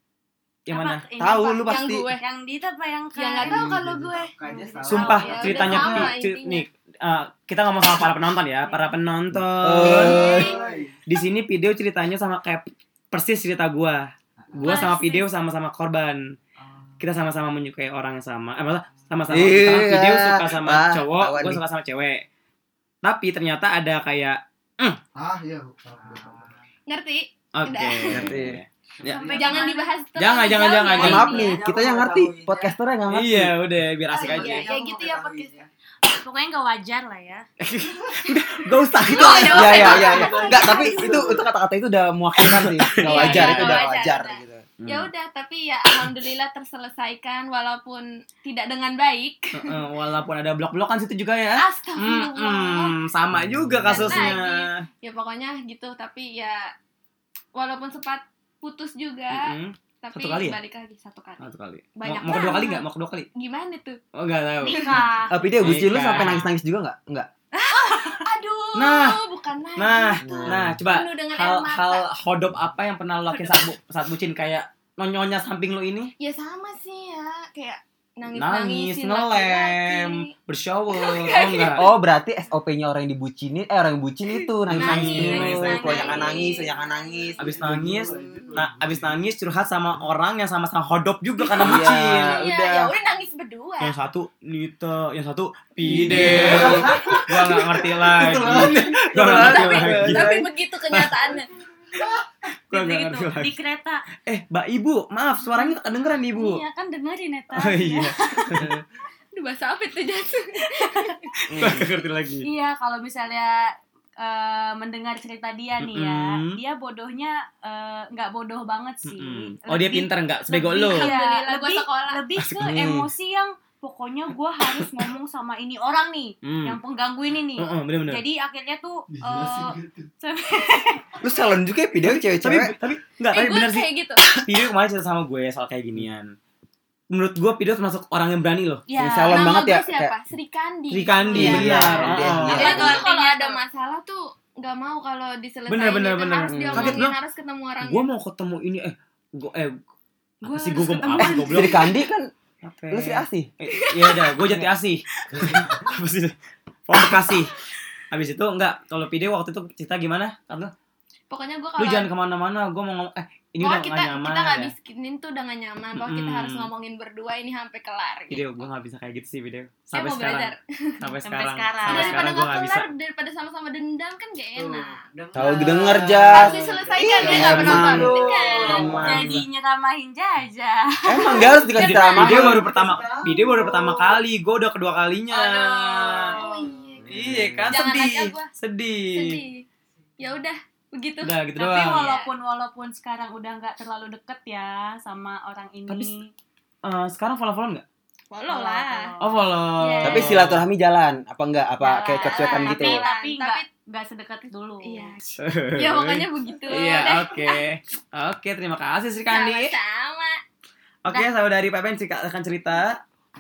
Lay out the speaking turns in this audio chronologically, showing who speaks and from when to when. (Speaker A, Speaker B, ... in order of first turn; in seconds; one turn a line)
Speaker A: 0.7-1.0
Speaker B: 0.7-3.8
Speaker C: 1.2-2.1
Speaker D: 1.3-2.2
Speaker D: 3.1-6.7
Speaker E: 3.5-5.8
Speaker B: 4.5-6.1
Speaker A: 4.9-10.4
Speaker B: 8.6-8.9
Speaker C: 9.5-10.6
Speaker D: 9.8-10.6
Speaker E: 9.9-11.0
Speaker A: 11.1-16.4
Speaker B: 14.6-15.3
Speaker A: 17.0-22.2
Speaker C: 19.3-21.6
Speaker A: 23.0-25.0
Speaker E: 25.1-26.5
Speaker D: 26.9-28.4
Speaker A: 27.5-29.2
Speaker C: 28.1-28.6
Speaker E: 29.0-29.7
Speaker B: 29.1-30.0
Speaker D: 29.2-31.6
Speaker A: 30.2-31.4
Speaker B: 30.6-31.6
Speaker C: 30.9-33.5
Speaker E: 31.4-32.7
Speaker A: 33.1-34.7
Speaker D: 34.1-35.6
Speaker E: 34.1-35.7
Speaker B: 36.0-37.5
Speaker A: 37.6-40.2
Speaker D: 39.0-41.3
Speaker C: 39.5-44.7
Speaker E: 40.0-41.5
Speaker A: 42.4-43.9
Speaker D: 43.0-49.8
Speaker A: 44.8-45.1
Speaker A: 49.5-54.9
Speaker D: 51.6-53.0
Speaker C: 53.5-54.3
Speaker D: 53.9-56.7
Speaker D: 57.6-64.0
Speaker A: 59.3-60.6
Speaker A: 61.4-63.3
Speaker A: 64.2-65.0
Speaker B: 64.6-65.5
Speaker D: 64.7-65.1
Speaker C: 65.3-67.3
Speaker A: 65.6-66.5
Speaker B: 67.6-68.2
Speaker D: 67.7-72.0
Speaker A: 68.8-69.2
Speaker A: 69.8-76.1
Speaker C: 70.2-70.8
Speaker D: 76.2-80.3
Speaker A: 78.3-81.9
Speaker D: 80.9-81.8
Speaker C: 81.7-87.5
Speaker A: 84.7-86.1
Speaker B: 84.8-86.7
Speaker D: 84.8-87.5
Speaker A: 87.4-92.4
Speaker E: 87.4-89.2
Speaker C: 91.6-92.9
Speaker D: 91.6-94.0
Speaker A: 93.8-101.3
Speaker C: 95.8-100.4
Speaker E: 95.9-97.7
Speaker E: 98.3-98.8
Speaker D: 99.2-101.5
Speaker A: 102.7-103.5
Speaker B: 102.7-104.0
Speaker A: 104.2-106.6
Speaker B: 105.5-105.8
Speaker B: 106.3-108.5
Speaker A: 107.5-108.8
Speaker D: 109.3-111.2
Speaker B: 110.7-111.2
Speaker C: 111.5-111.9
Speaker A: 111.5-112.5
Speaker B: 112.4-131.0
Speaker A: 115.8-116.6
Speaker A: 119.0-121.1
Speaker D: 120.5-122.2
Speaker C: 122.6-123.1
Speaker A: 126.4-126.8
Speaker A: 127.6-128.2
Speaker E: 129.1-130.1
Speaker C: 131.2-132.7
Speaker A: 132.1-136.3
Speaker D: 133.3-134.3
Speaker A: 137.1-138.8
Speaker B: 138.9-139.7
Speaker C: 139.0-140.2
Speaker D: 139.3-148.1
Speaker A: 140.9-143.0
Speaker C: 141.3-143.0
Speaker B: 141.4-143.6
Speaker A: 145.7-147.2
Speaker C: 146.5-147.0
Speaker A: 147.8-149.8
Speaker B: 150.4-151.9
Speaker A: 150.4-151.9
Speaker C: 151.3-152.3
Speaker A: 152.6-156.3
Speaker C: 152.9-153.5
Speaker A: 156.9-157.5
Speaker A: 158.1-160.7
Speaker D: 161.3-162.1
Speaker A: 161.8-164.7
Speaker D: 163.6-168.4
Speaker A: 165.9-166.7
Speaker A: 168.3-172.9
Speaker D: 169.9-171.1
Speaker B: 171.2-172.2
Speaker D: 171.9-175.0
Speaker E: 174.6-179.0
Speaker C: 175.3-179.4
Speaker D: 176.3-179.0
Speaker B: 177.3-178.1
Speaker A: 177.4-179.4
Speaker B: 178.6-182.2
Speaker C: 181.1-183.1
Speaker A: 181.8-186.5
Speaker D: 181.8-182.6
Speaker E: 182.6-183.3
Speaker B: 185.3-186.6
Speaker D: 186.3-188.5
Speaker C: 187.0-187.7
Speaker A: 187.1-189.4
Speaker D: 189.1-189.7
Speaker D: 190.2-192.3
Speaker A: 191.2-192.0
Speaker B: 191.6-196.3
Speaker A: 195.9-196.1
Speaker A: 196.8-197.8
Speaker D: 198.3-199.2
Speaker B: 198.5-200.2
Speaker A: 199.2-200.7
Speaker D: 199.8-200.3
Speaker C: 200.0-203.0
Speaker B: 201.8-205.2
Speaker D: 201.9-203.7
Speaker D: 204.8-207.6
Speaker A: 205.4-209.7
Speaker D: 209.3-210.4
Speaker A: 211.1-213.0